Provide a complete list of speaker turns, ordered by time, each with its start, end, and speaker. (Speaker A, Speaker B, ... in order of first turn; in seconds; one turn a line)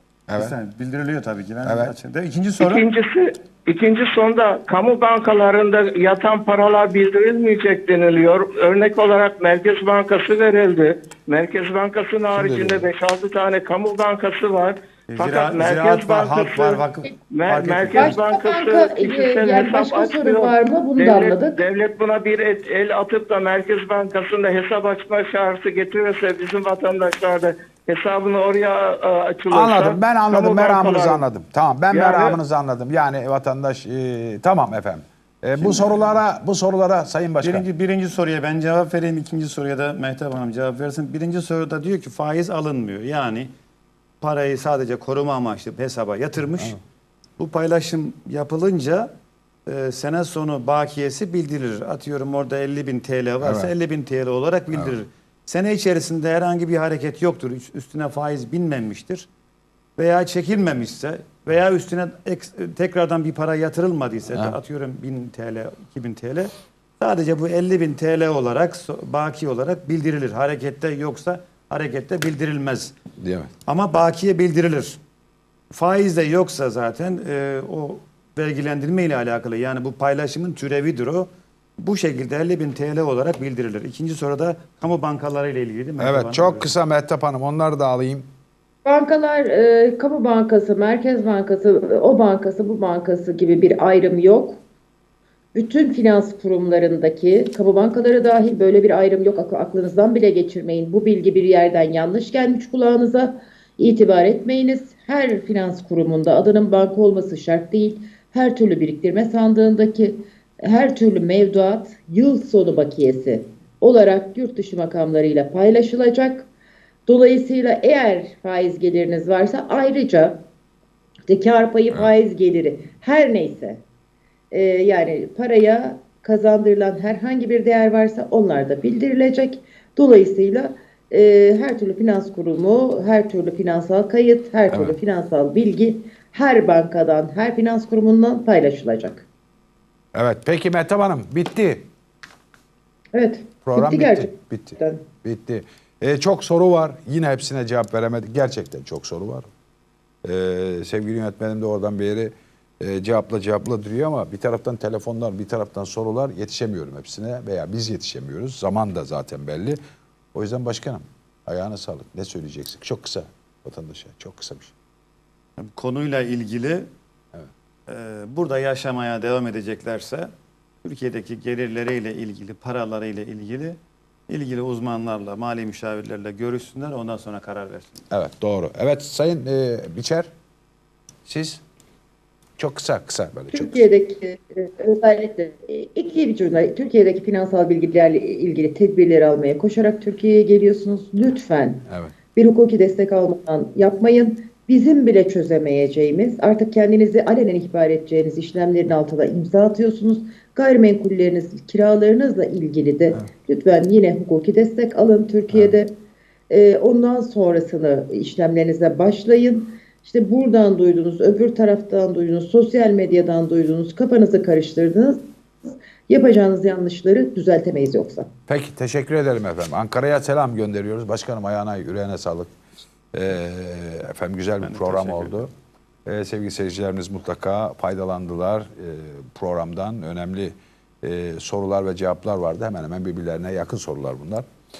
Speaker A: 0.3-0.6
Speaker B: 0.3-2.8
Speaker A: 1.6-1.9
Speaker C: 2.6-31.2
Speaker A: 12.3-12.8
Speaker B: 15.1-18.2
Speaker D: 17.9-21.6
Speaker A: 29.5-37.6
Speaker C: 31.9-32.4
Speaker B: 35.6-36.1
Speaker B: 37.4-43.5
Speaker B: 44.2-46.8
Speaker B: 47.4-49.1
Speaker B: 49.6-59.3
Speaker A: 53.4-53.7
Speaker B: 60.0-72.9
Speaker A: 73.2-73.5
Speaker B: 73.7-75.0
Speaker B: 75.7-86.7
Speaker A: 86.0-88.3
Speaker D: 88.8-94.6
Speaker D: 95.5-116.5
Speaker D: 117.1-120.4
Speaker D: 121.3-123.8
Speaker D: 124.5-139.2
Speaker A: 134.7-135.0
Speaker A: 140.1-141.8
Speaker D: 143.1-145.0
Speaker A: 143.6-149.5
Speaker A: 150.2-159.8
Speaker A: 160.3-164.7
Speaker B: 165.6-166.9
Speaker B: 167.9-170.3
Speaker B: 170.8-173.8
Speaker B: 174.3-178.0
Speaker A: 178.1-180.3
Speaker A: 181.2-181.6
Speaker A: 182.6-183.8
Speaker D: 183.5-205.9
Speaker A: 191.9-192.1
Speaker D: 206.5-218.3
Speaker A: 218.5-222.5
Speaker A: 223.1-225.5
Speaker B: 224.6-225.4
Speaker A: 226.1-234.5